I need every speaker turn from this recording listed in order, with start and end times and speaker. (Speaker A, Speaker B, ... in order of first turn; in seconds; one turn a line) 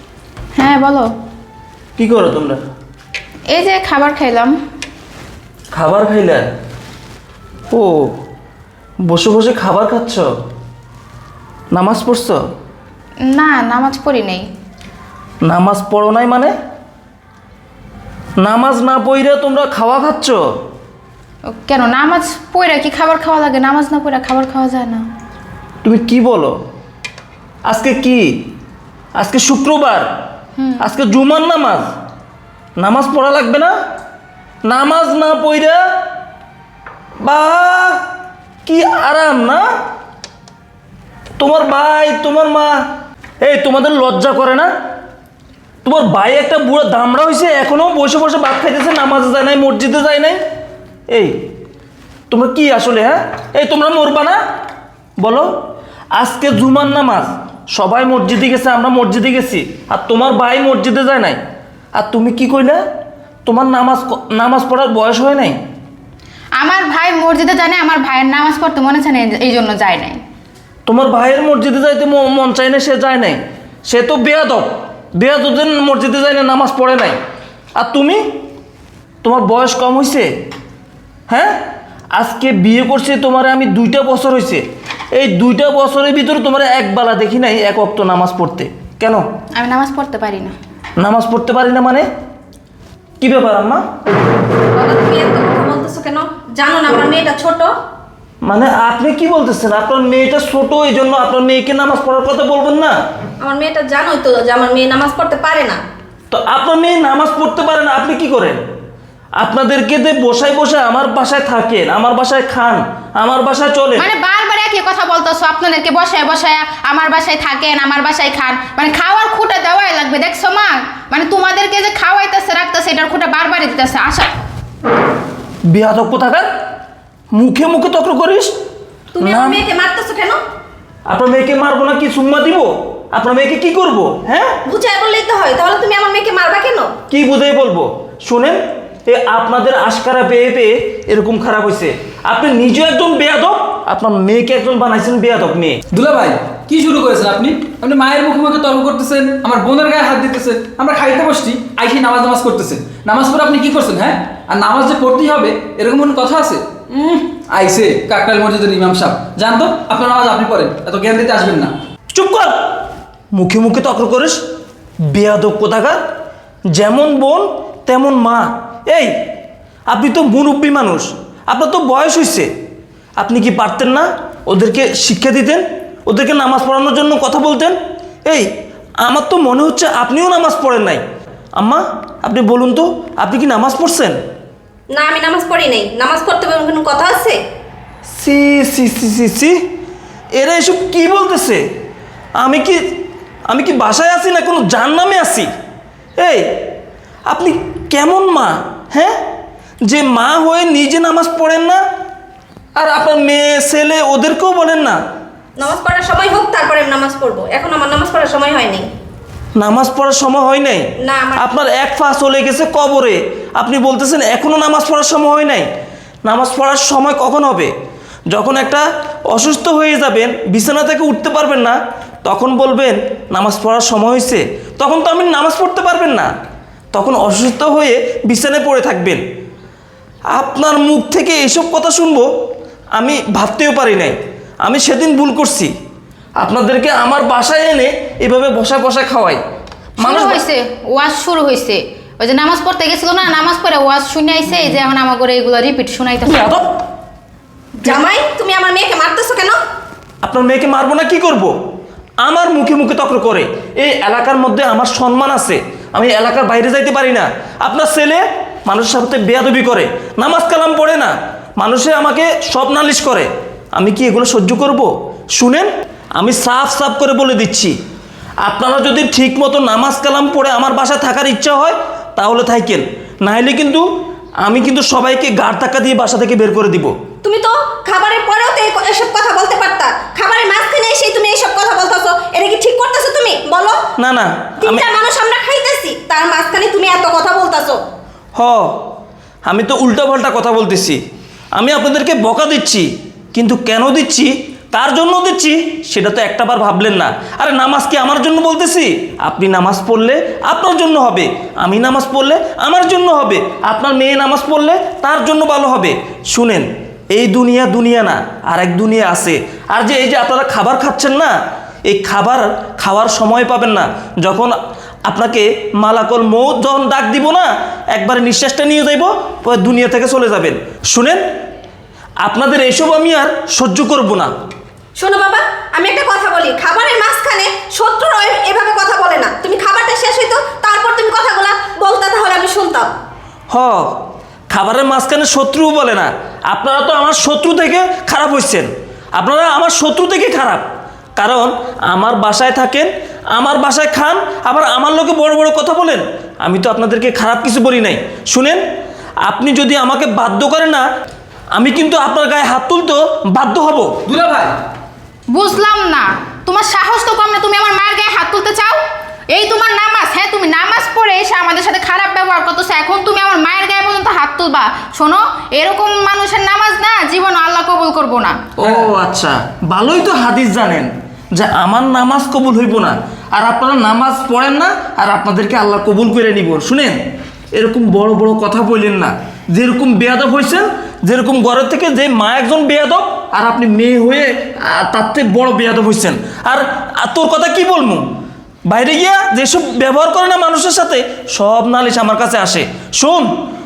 Speaker A: 0.6-1.1
Speaker B: 2.0-2.6
Speaker A: 3.5-4.6
Speaker B: 5.7-6.5
Speaker B: 7.7-8.1
Speaker B: 9.0-10.3
Speaker B: 11.7-12.4
Speaker A: 13.2-14.5
Speaker B: 15.4-16.5
Speaker B: 18.4-20.4
Speaker A: 21.5-25.1
Speaker B: 25.8-26.6
Speaker B: 27.6-28.4
Speaker B: 29.2-30.1
Speaker B: 30.8-31.9
Speaker B: 32.8-33.7
Speaker B: 34.7-35.8
Speaker B: 37.2-38.0
Speaker B: 38.6-39.7
Speaker B: 41.4-42.8
Speaker B: 43.4-44.7
Speaker B: 45.8-50.4
Speaker B: 51.1-51.4
Speaker B: 52.3-54.4
Speaker B: 55.2-55.5
Speaker B: 56.1-61.4
Speaker B: 62.0-62.8
Speaker B: 63.5-65.6
Speaker A: 66.6-70.2
Speaker B: 70.9-77.2
Speaker B: 77.8-78.3
Speaker B: 79.2-80.3
Speaker B: 81.3-81.6
Speaker B: 82.2-89.2
Speaker A: 89.5-90.5
Speaker B: 91.0-92.1
Speaker B: 93.2-93.8
Speaker C: 94.8-97.7
Speaker B: 98.4-103.0
Speaker C: 103.4-105.8
Speaker B: 106.3-108.6
Speaker B: 109.4-114.1
Speaker A: 114.0-124.3
Speaker B: 125.7-126.5
Speaker B: 127.3-128.5
Speaker C: 129.2-130.4
Speaker B: 129.2-129.6
Speaker B: 131.1-134.6
Speaker C: 134.7-136.9
Speaker B: 137.1-145.8
Speaker D: 145.9-161.7
Speaker B: 162.1-162.8
Speaker B: 163.3-164.4
Speaker B: 165.0-166.0
Speaker B: 166.7-169.1
Speaker B: 169.9-172.5
Speaker B: 173.2-178.5
Speaker B: 179.0-181.0
Speaker B: 181.6-184.2
Speaker C: 184.9-187.4
Speaker B: 188.2-189.6
Speaker B: 190.4-191.6
Speaker B: 192.4-195.5
Speaker B: 196.2-196.6
Speaker B: 197.3-199.2
Speaker B: 199.9-201.8
Speaker B: 202.8-205.0
Speaker C: 205.6-208.9
Speaker B: 209.6-215.7
Speaker C: 211.0-211.5
Speaker B: 216.2-217.7
Speaker B: 218.3-226.3
Speaker B: 226.9-229.2
Speaker B: 230.3-232.3
Speaker B: 233.0-235.7
Speaker B: 236.4-239.4
Speaker A: 240.0-246.5
Speaker B: 240.0-240.4
Speaker B: 246.3-246.7
Speaker C: 247.8-249.6
Speaker B: 250.2-251.5
Speaker B: 252.2-267.7
Speaker B: 268.4-273.9
Speaker B: 274.4-276.9
Speaker C: 277.2-283.8
Speaker B: 284.0-284.9
Speaker C: 284.6-287.8
Speaker B: 288.4-288.8
Speaker B: 289.5-291.0
Speaker B: 291.6-311.4
Speaker B: 311.9-321.2
Speaker B: 322.2-324.3
Speaker C: 325.0-332.9
Speaker B: 333.5-334.0
Speaker B: 334.5-340.6
Speaker B: 341.2-348.6
Speaker B: 349.2-350.9
Speaker B: 351.5-354.0
Speaker D: 354.1-354.6
Speaker A: 355.3-368.4
Speaker B: 368.6-377.0
Speaker B: 377.5-388.1
Speaker B: 388.7-393.3